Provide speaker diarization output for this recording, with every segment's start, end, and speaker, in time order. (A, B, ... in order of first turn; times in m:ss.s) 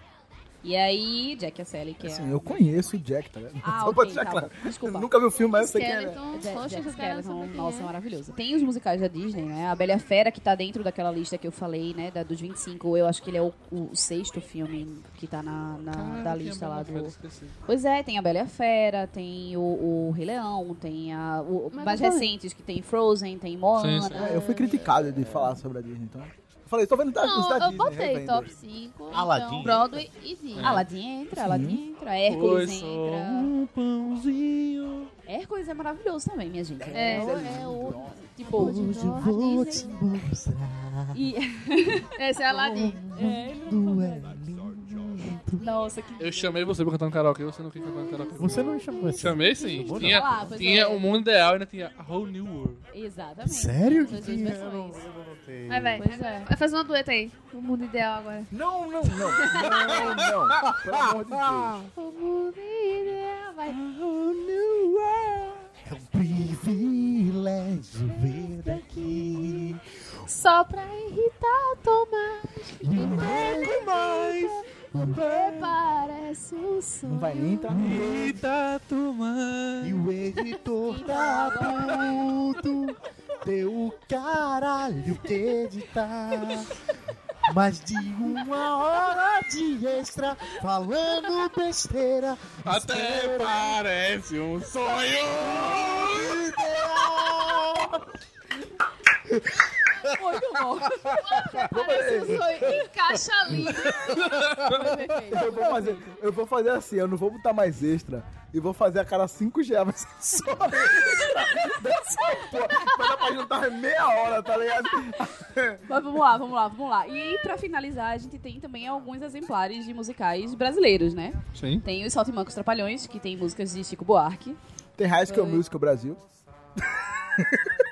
0:00.6-0:02.6 A
0:02.0-0:06.2 B
0:03.6-0:05.1 A
0:05.5-0:07.9 C
0:06.3-0:17.1 A
0:15.9-0:17.6 D
0:17.6-0:24.4 A
0:21.7-0:22.3 C
0:23.7-0:24.3 D
0:24.1-0:28.5 B
0:24.2-0:24.7 C
0:27.2-0:30.8 C
0:29.1-0:30.0 E
0:29.2-0:29.8 A
0:30.6-0:30.8 D
0:30.6-0:33.5 A
0:31.3-0:31.8 B
0:32.3-0:33.4 D
0:33.3-0:35.1 E
0:35.2-0:39.9 A
0:36.8-0:38.3 B
0:36.9-0:37.4 C
0:38.5-0:39.9 C
0:38.5-0:41.2 E
0:41.1-0:42.1 A
0:42.2-0:43.0 C
0:42.5-0:45.6 E
0:43.1-0:44.4 A
0:45.6-0:46.6 A
0:46.2-0:52.8 D
0:48.4-0:50.6 E
0:49.9-0:51.2 A
0:52.9-0:55.0 A
0:53.4-0:56.0 E
0:55.7-0:58.5 C
0:56.0-0:56.5 A
0:58.5-1:01.8 B
0:59.2-0:59.8 C
0:59.6-1:01.8 E
1:01.8-1:03.8 C
1:03.7-1:09.8 E
1:08.1-1:17.7 C
1:12.8-1:15.7 E
1:17.0-1:18.4 B
1:17.7-1:20.0 D
1:19.8-1:26.8 E
1:20.8-1:22.2 A
1:27.4-1:33.7 E
1:32.6-1:36.3 D
1:35.4-1:38.0 E
1:40.1-1:41.2 A
1:40.6-1:41.7 E
1:41.2-1:44.2 C
1:41.7-1:42.6 B
1:42.4-1:42.8 E
1:43.6-1:44.1 E
1:44.0-1:45.0 D
1:44.4-1:46.1 A
1:45.3-1:55.8 B
1:55.9-2:04.6 A
2:01.5-2:01.8 D
2:05.0-2:06.2 B
2:05.3-2:05.6 A
2:07.4-2:07.7 B